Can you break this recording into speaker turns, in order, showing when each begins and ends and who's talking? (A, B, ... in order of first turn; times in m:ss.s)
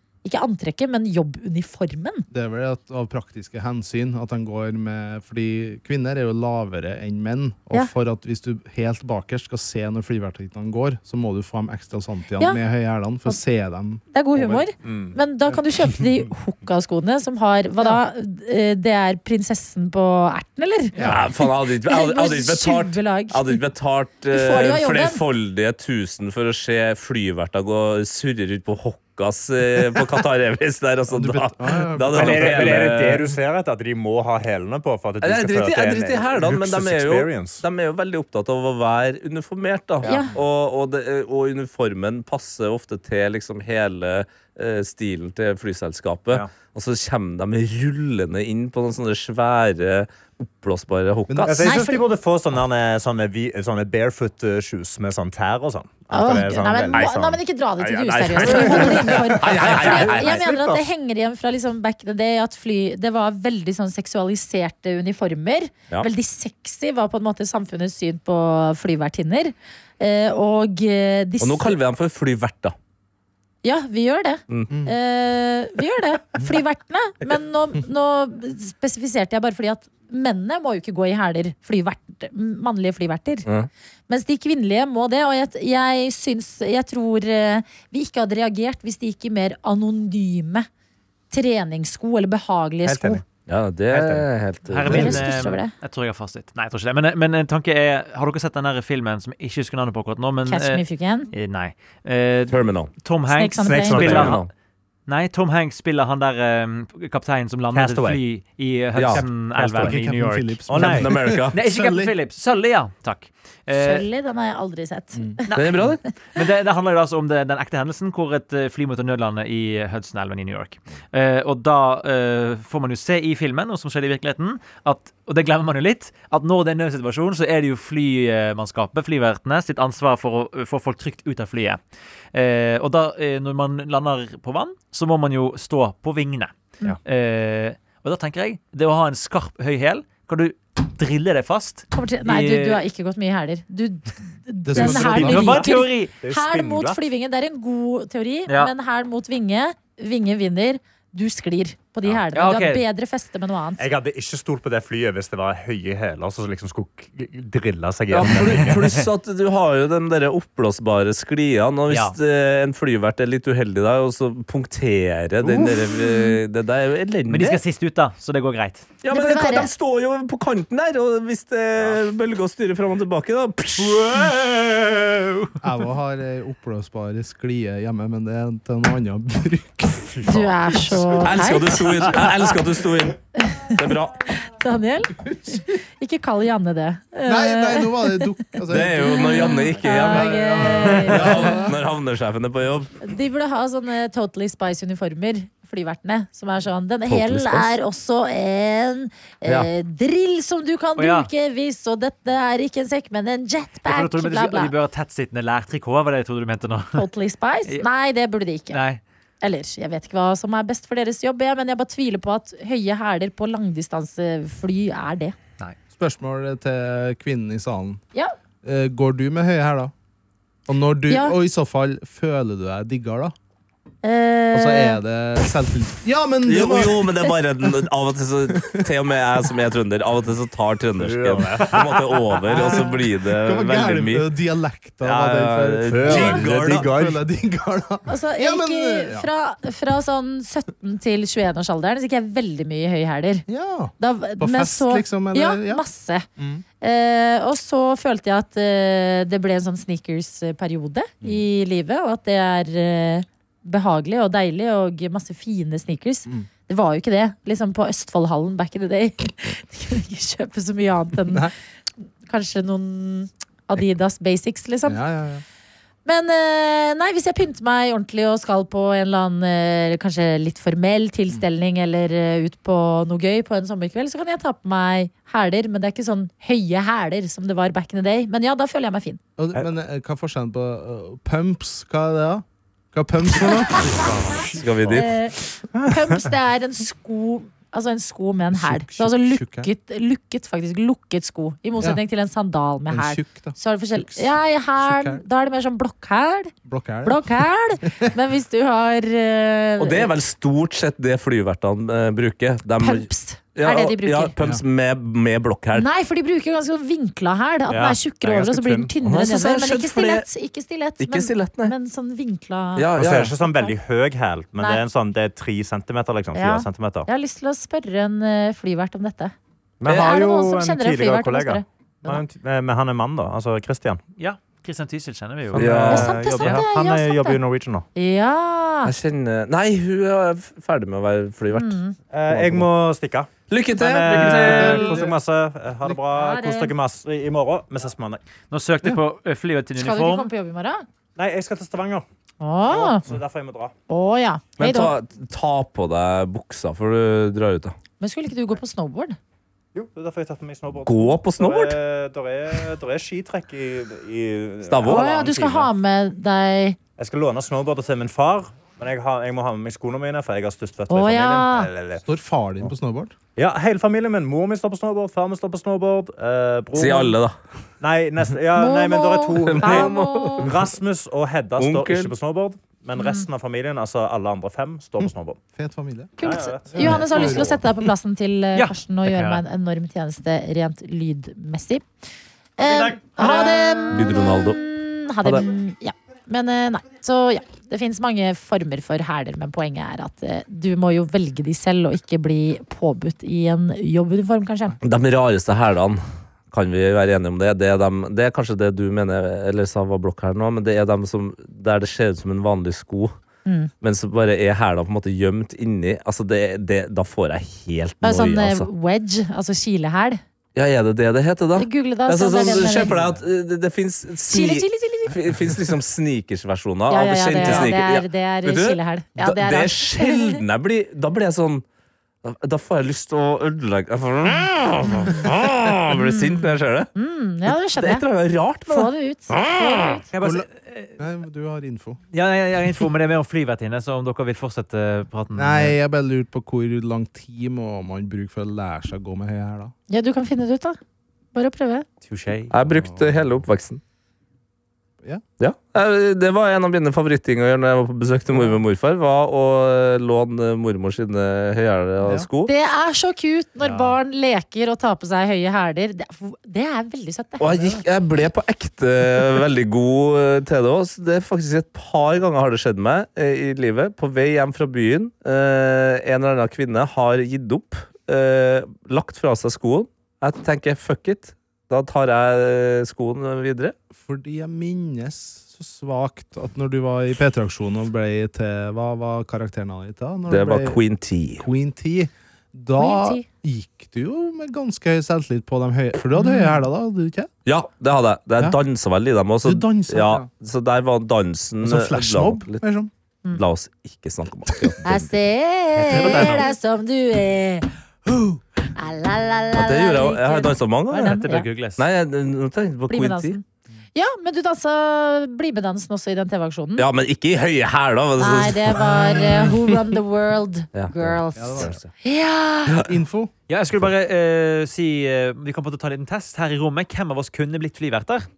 0:00.2-0:02.2 A
0:02.3-0:14.6 B
0:14.1-0:23.6 A
0:14.8-0:16.1 C
0:21.0-0:33.3 D
0:24.3-0:25.2 A
0:31.1-0:32.9 B
0:32.1-0:37.6 C
0:35.2-0:51.8 D
0:40.0-0:40.3 A
0:40.0-0:40.3 C
0:51.3-0:51.6 B
0:51.4-0:57.4 C
0:51.6-0:52.0 A
0:56.1-1:11.8 A
0:57.8-1:00.6 D
0:58.4-1:00.8 C
1:11.4-1:12.7 D
1:13.6-1:23.5 A
1:14.5-1:14.8 D
1:24.1-1:30.7 A
1:31.3-1:33.2 A
1:32.8-1:33.2 C
1:33.5-1:35.2 D
1:33.9-1:34.3 C
1:34.7-1:44.4 E
1:34.8-1:35.7 A
1:40.4-1:41.3 A
1:42.5-1:42.9 D
1:43.3-1:44.3 A
1:43.6-1:44.4 C
1:44.0-1:44.5 D
1:45.1-1:50.8 E
1:47.7-1:48.2 C
1:49.0-1:49.2 D
1:49.1-1:50.0 C
1:49.5-1:52.1 B
1:50.7-1:51.1 C
1:50.8-1:51.6 D
1:51.5-1:54.1 E
1:53.7-1:55.6 A
1:55.5-2:11.8 E
1:55.5-1:56.0 D
2:12.3-2:22.8 E
2:21.9-2:33.8 A
2:24.6-2:25.6 B
2:24.8-2:26.1 E
2:24.8-2:27.0 C
2:32.3-2:32.8 E
2:33.8-2:39.0 C
2:38.1-2:47.6 D
2:41.9-2:42.2 E
2:45.4-2:45.7 C
2:45.9-2:46.3 A
2:47.3-2:48.9 E
2:49.0-2:54.3 D
2:49.1-2:49.7 A
2:54.0-2:55.0 E
2:55.6-3:00.3 B
3:00.2-3:01.2 C
3:00.2-3:02.1 A
3:01.2-3:03.2 D
3:03.4-3:08.3 A
3:03.7-3:04.2 D
3:07.2-3:11.7 B
3:08.7-3:13.0 D
3:09.0-3:11.6 A
3:13.0-3:24.7 A
3:17.1-3:17.7 D
3:19.4-3:19.7 D
3:21.0-3:21.3 E
3:23.8-3:27.0 E
3:26.9-3:28.8 A
3:28.7-3:29.0 E
3:29.4-3:35.3 A
3:36.0-3:38.0 B
3:38.6-3:39.9 B
3:40.7-3:43.3 B
3:41.1-3:41.4 A
3:44.0-3:45.0 A
3:44.5-3:47.2 B
3:46.4-3:54.3 D
3:48.5-3:48.8 B
3:51.0-3:52.9 C
3:52.5-3:59.3 B
3:55.0-3:57.2 C
3:55.1-3:56.9 D
3:58.1-4:03.4 A
4:03.5-4:05.8 B
4:04.0-4:06.3 A
4:06.4-4:06.6 B
4:06.8-4:21.5 A
4:21.3-4:21.5 B
4:22.2-4:25.0 A
4:24.9-4:25.4 B
4:26.0-4:39.2 A
4:39.4-4:44.0 B
4:44.0-4:45.0 C
4:44.4-4:45.1 D
4:44.9-4:56.5 A
4:45.7-4:46.2 C
4:48.5-4:49.7 B
4:52.9-4:55.2 B
4:56.6-4:58.1 B
4:57.0-5:00.1 A
4:59.8-5:05.9 D
5:02.8-5:04.3 A
5:05.7-5:13.7 A
5:07.7-5:08.9 C
5:09.0-5:10.2 D
5:11.0-5:11.7 D
5:12.8-5:13.3 D
5:13.0-5:17.1 C
5:14.6-5:14.8 A
5:16.3-5:19.3 A
5:19.8-5:24.0 C
5:19.8-5:22.2 A
5:24.2-5:26.6 E
5:25.5-5:27.9 C
5:25.5-5:26.2 D
5:25.8-5:27.4 A
5:27.9-5:28.9 A
5:28.8-5:31.8 D
5:31.5-5:31.9 A
5:32.1-5:38.2 C
5:32.3-5:32.7 D
5:33.5-5:35.0 D
5:34.3-5:35.1 B
5:36.1-5:36.7 A
5:38.5-5:40.3 E
5:39.8-5:40.8 A
5:41.2-5:42.0 C
5:42.4-5:43.0 A
5:42.7-5:43.7 C
5:43.9-5:44.9 A
5:44.6-5:47.7 D
5:48.0-5:49.2 A
5:49.7-5:55.7 C
5:50.8-5:51.8 D
5:54.6-5:55.1 D
5:54.8-5:56.8 A
5:57.0-6:02.0 C
6:00.9-6:01.7 A
6:02.0-6:03.1 B
6:03.4-6:07.2 C
6:06.7-6:07.4 D
6:07.8-6:15.4 C
6:08.5-6:10.5 A
6:09.4-6:10.5 D
6:11.6-6:12.1 D
6:13.0-6:13.2 A
6:15.5-6:16.1 B
6:16.2-6:21.8 A
6:16.2-6:17.6 C
6:16.7-6:17.6 B
6:18.5-6:19.4 E
6:22.6-6:34.8 A
6:22.6-6:24.1 C
6:23.9-6:24.6 D
6:34.8-6:43.1 D
6:43.4-6:43.7 A
6:43.8-6:48.7 D
6:48.0-6:50.2 A
6:50.5-7:01.6 D
6:51.6-6:53.0 A
6:54.3-6:55.2 A
6:56.9-7:00.4 A
7:02.2-7:06.9 D
7:05.9-7:08.0 A
7:07.5-7:10.0 D
7:08.7-7:10.0 A
7:10.1-7:11.0 E
7:10.2-7:10.5 B
7:11.0-7:12.0 B
7:12.1-7:15.8 E
7:15.3-7:19.7 B
7:19.9-7:20.8 A
7:21.3-7:21.9 A
7:22.0-7:22.5 E
7:22.5-7:23.8 D
7:22.7-7:23.1 B
7:25.4-7:32.5 D
7:32.0-7:32.3 B
7:32.4-7:37.8 A
7:37.4-7:53.7 D
7:53.9-8:00.8 B
8:00.3-8:01.4 D
8:01.4-8:07.3 B
8:02.8-8:03.2 A
8:06.2-8:06.6 A
8:07.4-8:12.6 D
8:09.4-8:10.3 B
8:11.6-8:12.9 B
8:13.3-8:15.1 D
8:14.8-8:21.5 A
8:15.8-8:16.5 E
8:19.5-8:21.2 D
8:21.1-8:21.8 E
8:21.8-8:23.4 D
8:22.9-8:23.4 A
8:23.9-8:26.9 A
8:26.8-8:28.9 D
8:28.2-8:32.8 A
8:30.7-8:31.9 D
8:31.4-8:31.8 B
8:32.8-8:33.3 B
8:33.5-8:38.3 E